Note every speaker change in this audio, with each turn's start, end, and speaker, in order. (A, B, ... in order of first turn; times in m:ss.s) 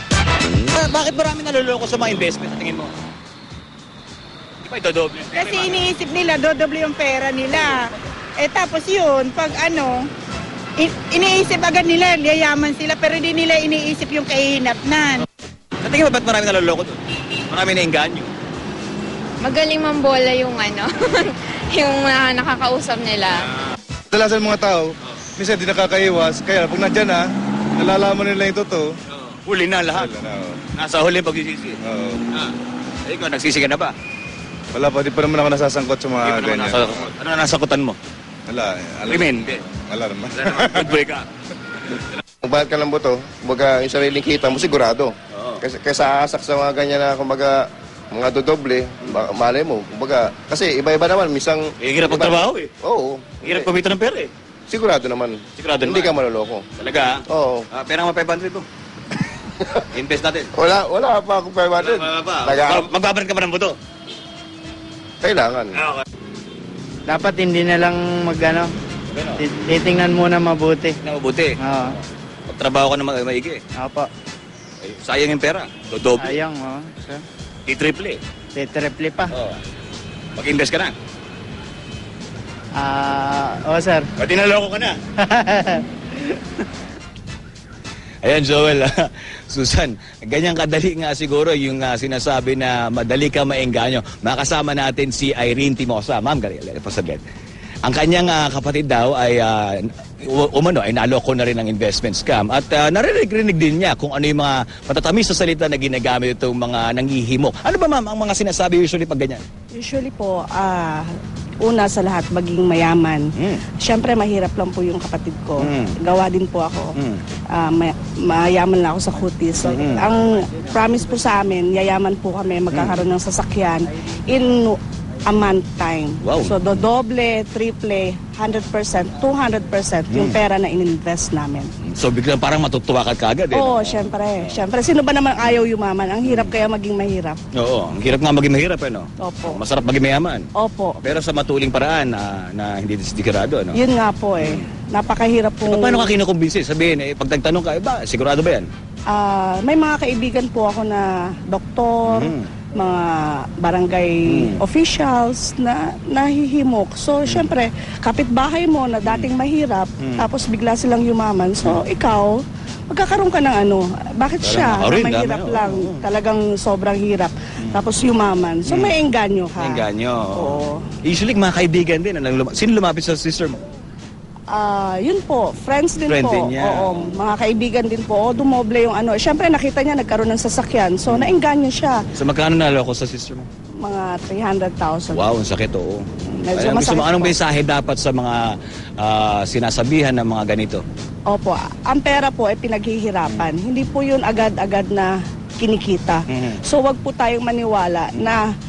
0:00.4-0:02.9 A
0:04.6-0:05.9 A
0:05.3-0:07.8 B
0:08.4-0:10.0 B
0:10.8-0:15.0 B
0:15.8-0:18.3 A
0:19.4-0:23.5 C
0:24.1-0:28.9 D
0:29.1-0:30.1 A
0:29.9-0:30.6 D
0:30.7-0:31.8 A
0:31.8-0:32.2 D
0:33.0-0:33.9 A
0:34.7-0:37.0 D
0:36.2-0:38.0 A
0:38.5-0:41.0 D
0:39.1-0:39.6 A
0:40.3-0:41.3 A
0:41.9-0:42.2 A
0:42.4-0:53.7 E
0:45.3-0:45.6 A
0:51.8-0:52.7 A
0:53.4-0:54.3 A
0:54.7-0:56.7 E
0:55.6-0:56.1 A
0:56.8-0:58.7 A
0:57.3-0:57.7 E
0:59.9-1:00.5 A
1:00.6-1:02.9 E
1:01.8-1:03.8 A
1:05.2-1:05.8 E
1:05.8-1:06.0 A
1:07.1-1:08.7 F
1:09.1-1:09.4 A
1:09.4-1:11.0 F
1:11.0-1:13.6 A
1:11.6-1:12.0 F
1:13.8-1:14.1 F
1:14.8-1:16.4 A
1:16.2-1:17.2 F
1:17.7-1:18.2 A
1:18.5-1:19.3 F
1:19.3-1:19.6 A
1:20.4-1:21.0 A
1:22.8-1:24.1 F
1:24.2-1:25.0 A
1:25.2-1:26.4 F
1:28.2-1:37.2 A
1:37.8-1:49.4 A
1:49.7-1:53.3 G
1:53.4-1:53.6 A
1:53.8-1:57.0 G
1:55.6-1:56.0 A
1:57.0-1:57.2 A
1:57.5-2:11.7 G
1:59.6-2:00.0 A
2:02.7-2:03.0 A
2:06.2-2:06.6 A
2:10.1-2:10.4 A
2:11.8-2:14.6 A
2:13.5-2:17.4 G
2:16.2-2:16.5 A
2:17.6-2:20.5 A
2:19.2-2:19.6 G
2:20.6-2:21.0 G
2:21.0-2:23.8 A
2:23.7-2:26.1 G
2:24.4-2:24.7 A
2:25.6-2:28.7 A
2:29.1-2:50.8 G
2:32.1-2:32.5 A
2:34.3-2:34.6 A
2:37.3-2:37.5 A
2:39.0-2:39.3 A
2:40.0-2:40.3 A
2:44.4-2:46.1 A
2:48.6-2:49.0 A
2:49.6-2:53.6 A
2:54.5-3:02.0 G
2:56.1-2:57.1 A
3:01.1-3:01.4 A
3:02.2-3:03.5 A
3:03.8-3:05.3 G
3:05.1-3:10.8 A
3:06.3-3:07.4 G
3:11.3-3:18.5 G
3:13.2-3:13.5 A
3:16.3-3:16.6 A